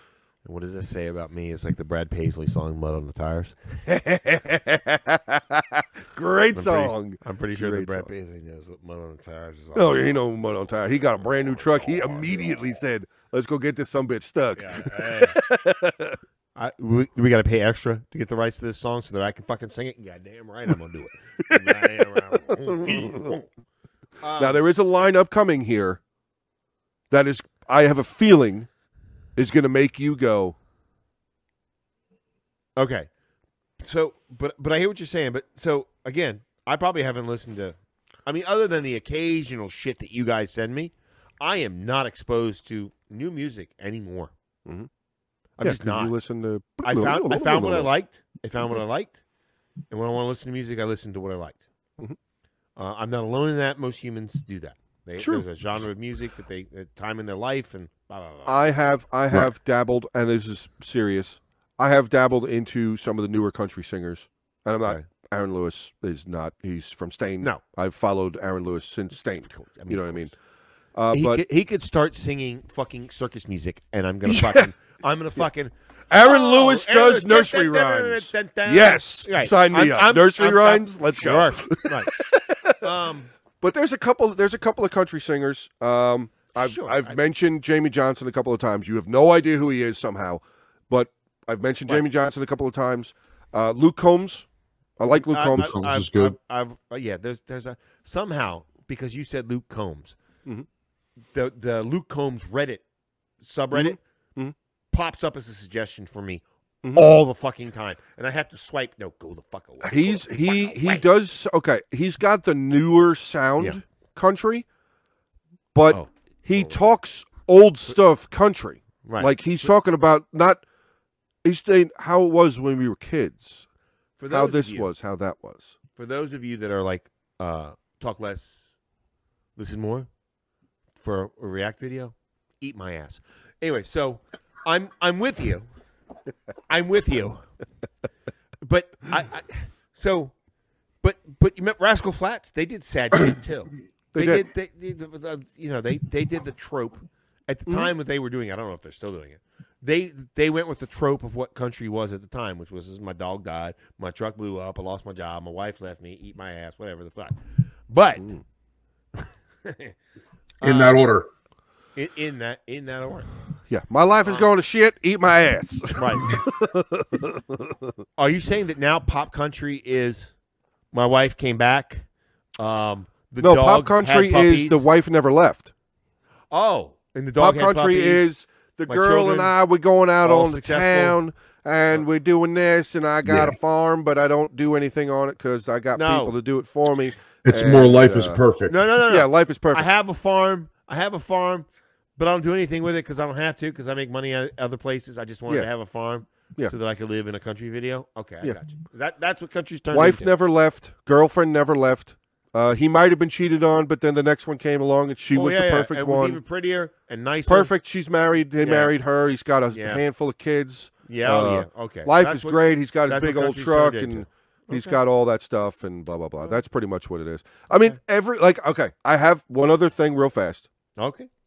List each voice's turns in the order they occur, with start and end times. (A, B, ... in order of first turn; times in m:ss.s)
0:00.4-0:03.5 A
0:03.8-0:08.1 B
0:06.5-0:10.1 A
0:09.7-0:16.2 B
0:11.2-0:12.6 A
0:14.6-0:15.4 A
0:16.6-0:23.5 A
0:21.5-0:23.3 B
0:24.2-0:24.6 A
0:24.4-0:26.0 B
0:27.1-0:28.7 B
0:29.4-0:30.5 B
0:32.8-0:33.1 A
0:33.8-0:44.3 A
0:45.6-0:46.2 A
0:45.6-0:47.9 B
0:46.8-0:49.2 A
0:49.9-0:51.6 A
0:52.8-0:58.6 A
0:55.2-0:55.4 B
0:58.4-1:10.3 B
1:09.4-1:10.3 A
1:10.9-1:11.4 B
1:11.1-1:22.1 A
1:14.2-1:14.7 B
1:16.1-1:22.8 B
1:22.8-1:23.3 A
1:23.6-1:34.4 B
1:26.5-1:27.2 A
1:35.0-1:35.7 B
1:35.1-1:40.2 A
1:35.6-1:36.4 C
1:41.3-1:42.8 A
1:43.4-1:44.0 A
1:43.7-1:44.5 B
1:44.9-1:46.4 A
1:46.9-1:51.1 A
1:49.8-1:54.6 B
1:55.7-2:00.6 B
1:55.9-1:56.8 A
1:59.0-1:59.3 A
2:01.4-2:03.6 B
2:04.2-2:04.9 A
2:04.3-2:05.7 B
2:06.0-2:08.7 A
2:09.6-2:10.1 A
2:11.0-2:15.7 A
2:16.7-2:17.4 A
2:18.6-2:20.3 A
2:21.0-2:38.3 A
2:24.1-2:24.4 B
2:39.6-2:39.9 A
2:40.6-2:41.0 A
2:40.6-2:41.3 C
2:42.0-2:43.3 A
2:43.7-2:47.8 B
2:45.9-2:46.4 A
2:48.2-2:50.3 A
2:50.9-2:52.0 A
2:52.6-2:54.8 A
2:53.4-2:55.7 B
2:56.5-2:58.3 A
2:57.4-3:08.4 B
2:58.9-2:59.5 A
3:00.2-3:01.2 A
3:03.2-3:03.6 C
3:05.9-3:06.3 A
3:07.4-3:08.7 C
3:08.7-3:20.3 A
3:09.1-3:09.9 B
3:19.9-3:26.4 B
3:25.3-3:27.7 A
3:27.5-3:40.6 B
3:28.6-3:28.9 A
3:29.7-3:30.0 A
3:31.0-3:35.0 A
3:41.0-3:41.3 A